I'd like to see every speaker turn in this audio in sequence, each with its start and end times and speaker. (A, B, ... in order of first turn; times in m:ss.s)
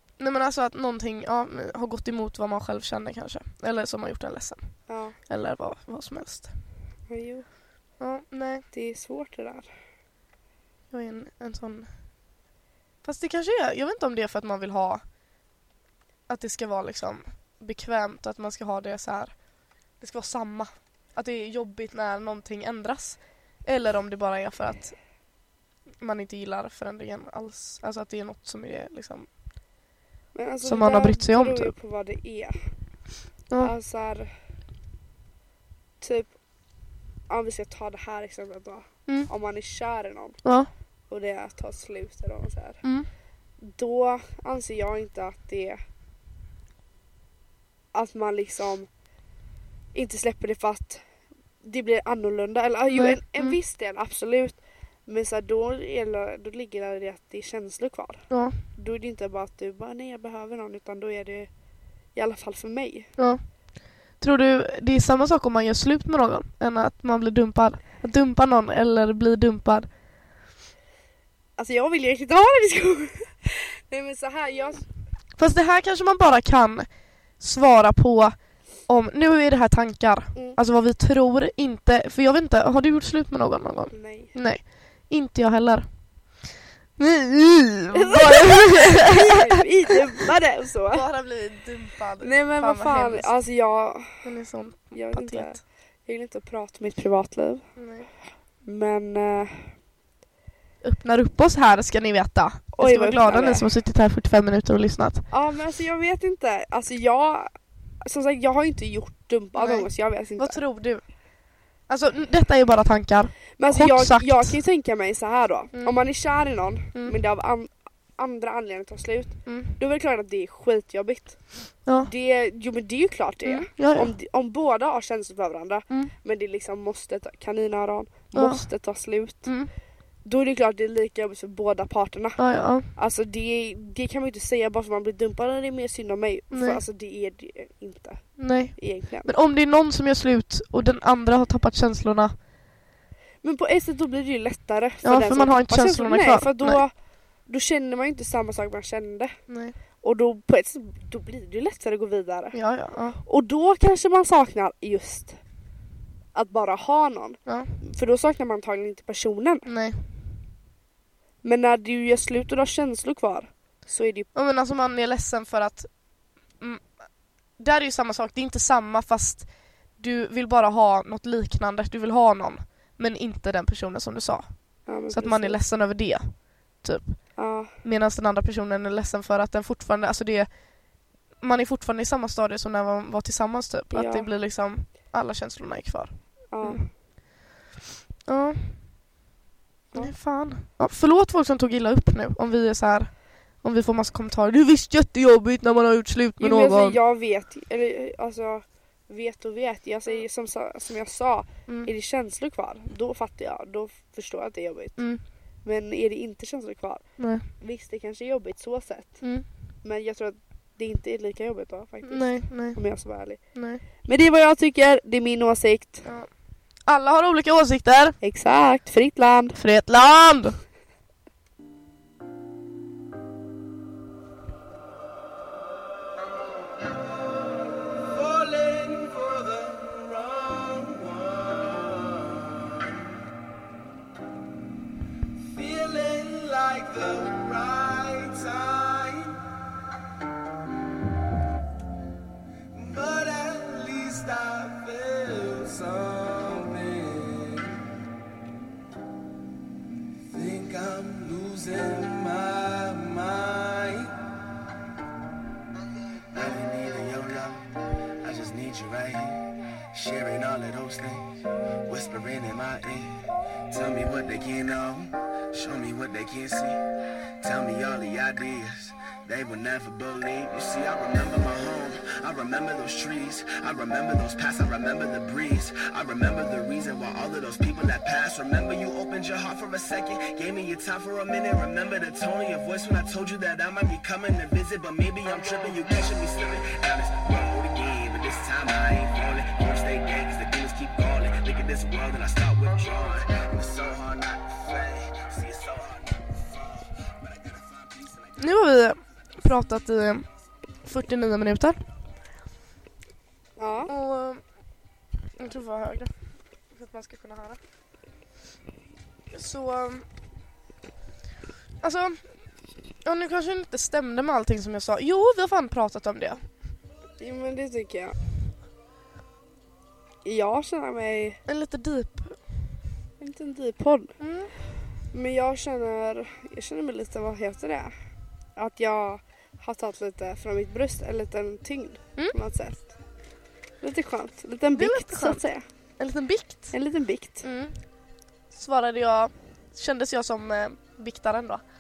0:00.2-0:04.6 A
0:04.9-0:05.2 B
0:05.3-0:06.5 A
0:07.1-0:07.5 B
0:08.0-0:08.6 A
0:08.7-0:09.7 B
0:10.9-0:11.9 A
0:13.0-0:15.0 A
0:16.3-0:19.3 A
0:20.0-0:24.9 A
0:26.0-0:29.3 A
0:30.3-0:32.6 B
0:30.6-0:31.7 A
0:33.6-0:34.3 B
0:36.0-0:36.4 B
0:37.3-0:40.4 B
0:40.4-0:40.7 A
0:41.1-0:42.8 B
0:42.8-0:43.1 A
0:43.6-0:45.8 B
0:47.9-0:48.9 B
0:49.9-0:51.0 B
0:51.6-1:01.5 B
0:52.9-0:53.6 A
0:58.3-0:58.6 A
1:02.1-1:03.1 B
1:04.2-1:09.9 A
1:11.6-1:14.8 B
1:15.4-1:16.9 A
1:17.4-1:18.3 A
1:18.9-1:25.8 A
1:23.9-1:24.3 B
1:27.0-1:29.6 A
1:27.9-1:31.0 B
1:30.9-1:33.4 A
1:32.2-1:34.2 B
1:34.2-1:35.6 A
1:34.9-1:37.7 B
1:37.8-1:38.1 A
1:38.6-1:39.7 B
1:40.8-1:45.3 A
1:42.8-1:43.6 B
1:45.3-1:47.5 B
1:48.0-1:50.6 B
1:49.6-1:49.9 A
1:50.4-1:51.0 A
1:51.9-1:54.6 A
1:53.6-2:01.4 B
1:59.5-1:59.8 A
2:02.0-2:09.5 B
2:03.4-2:04.1 A
2:08.3-2:08.6 A
2:09.4-2:09.7 A
2:10.2-2:12.4 B
2:12.4-2:12.9 A
2:13.0-2:18.2 B
2:16.5-2:16.8 A
2:18.4-2:22.3 A
2:18.8-2:19.3 B
2:23.4-2:26.9 B
2:25.0-2:26.8 A
2:27.5-2:29.4 B
2:29.5-2:29.7 A
2:30.0-2:32.6 B
2:32.5-2:33.2 A
2:33.2-2:35.4 B
2:36.3-2:39.7 B
2:37.5-2:37.7 A
2:39.6-2:40.0 A
2:41.4-2:44.3 B
2:44.3-2:45.9 A
2:47.6-2:49.4 A
2:50.0-2:54.5 A
2:54.9-2:55.6 B
2:55.1-2:56.3 A
2:56.8-2:57.2 A
2:57.4-2:57.7 B
2:57.8-3:00.5 A
3:01.4-3:06.8 A
3:03.9-3:04.3 B
3:06.5-3:06.9 B
3:08.3-3:08.7 A
3:09.9-3:13.1 A
3:13.6-3:17.0 A
3:16.4-3:25.0 B
3:25.0-3:25.2 A
3:25.6-3:27.0 B
3:27.2-3:27.4 A
3:27.6-3:29.2 B
3:29.2-3:29.5 A
3:29.8-3:33.4 B
3:32.0-3:32.8 A
3:33.6-3:33.8 A
3:34.0-3:36.0 B
3:36.9-3:38.2 A
3:38.2-3:39.6 B
3:39.6-3:40.6 A
3:48.1-3:52.9 C
3:55.4-3:59.4 C
4:02.7-4:07.8 C
4:10.3-4:14.2 C
4:16.3-4:26.8 C
4:27.4-4:58.5 C
4:58.4-5:00.2 A
5:00.8-5:01.8 A
5:03.6-5:03.9 B
5:03.9-5:04.4 A
5:05.4-5:06.1 A
5:06.7-5:07.6 A
5:09.3-5:10.0 A
5:11.8-5:12.2 A
5:13.0-5:16.4 A
5:17.2-5:18.1 B
5:20.2-5:21.4 B
5:21.5-5:22.4 A
5:23.2-5:24.2 B
5:24.2-5:24.5 A
5:25.1-5:27.9 B
5:28.6-5:33.0 B
5:33.8-5:35.6 B
5:34.8-5:35.4 A
5:36.0-5:36.7 A
5:36.7-5:37.4 B
5:37.4-5:37.7 A
5:38.5-5:41.6 A